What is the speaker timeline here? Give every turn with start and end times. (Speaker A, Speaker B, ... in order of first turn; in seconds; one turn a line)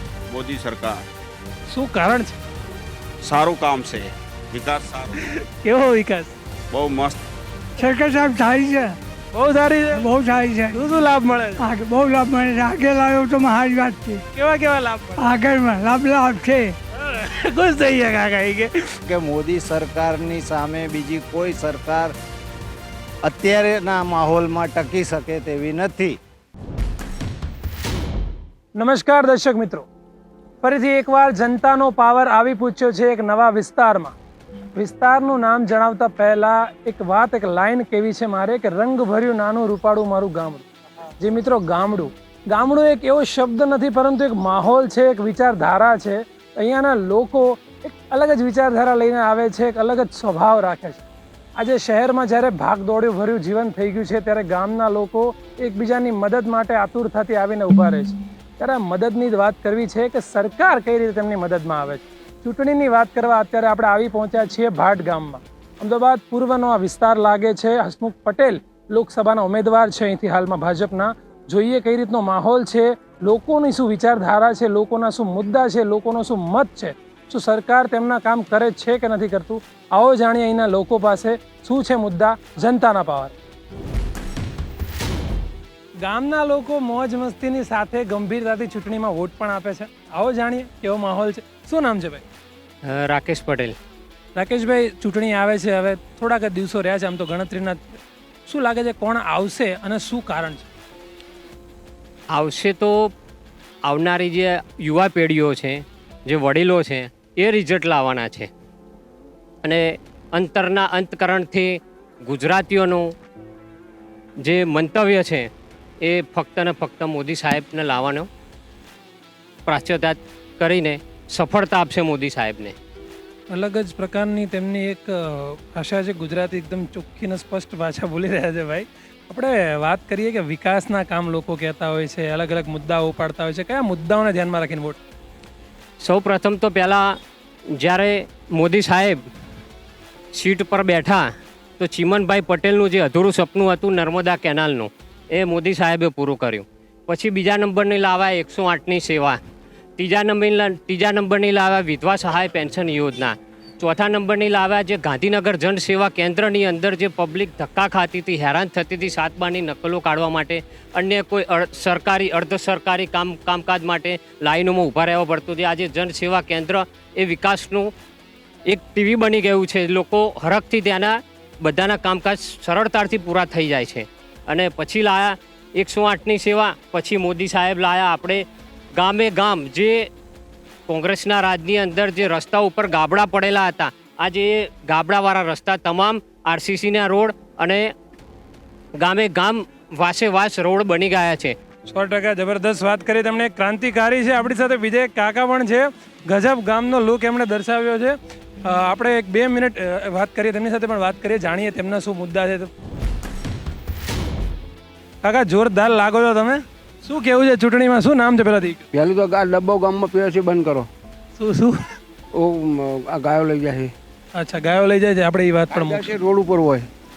Speaker A: 0.3-1.0
Speaker B: 1.7-2.4
Speaker A: 3.2-5.3
Speaker B: 5.2-6.3
Speaker A: 6.7-7.2
Speaker C: 7.8-8.9
Speaker B: 9.3-10.0
Speaker C: 10.0-10.8
Speaker B: 10.7-11.6
Speaker C: 11.6-14.2
Speaker B: 14.3-15.3
Speaker C: 15.2-16.7
Speaker B: 17.0-19.0
Speaker D: 19.0-22.1
Speaker D: 23.2-26.2
Speaker B: 28.8-29.9
Speaker B: 30.6-34.1
Speaker B: 34.8-40.6
Speaker B: 41.2-51.0
Speaker B: 51.6-83.3
Speaker B: 86.0-92.2
Speaker E: 92.8-93.7
Speaker B: 94.3-100.7
Speaker E: 102.3-103.1
Speaker E: 103.8-108.5
Speaker E: 109.6-113.1
Speaker E: 114.4-115.5
Speaker E: 116.0-118.3
Speaker E: 119.7-122.7
Speaker B: 123.5-135.0
Speaker E: 136.0-137.2
Speaker E: 137.7-139.2
Speaker E: 140.3-149.4
Speaker E: 150.0-167.9
Speaker E: 168.7-178.4
Speaker E: 179.0-180.1
Speaker E: 180.9-187.9
Speaker E: 189.0-191.5
Speaker B: 191.9-202.7
Speaker B: 205.2-208.8
Speaker F: 208.9-210.9
Speaker B: 211.4-211.8
Speaker F: 212.3-213.9
Speaker B: 214.3-216.2
Speaker F: 215.7-216.9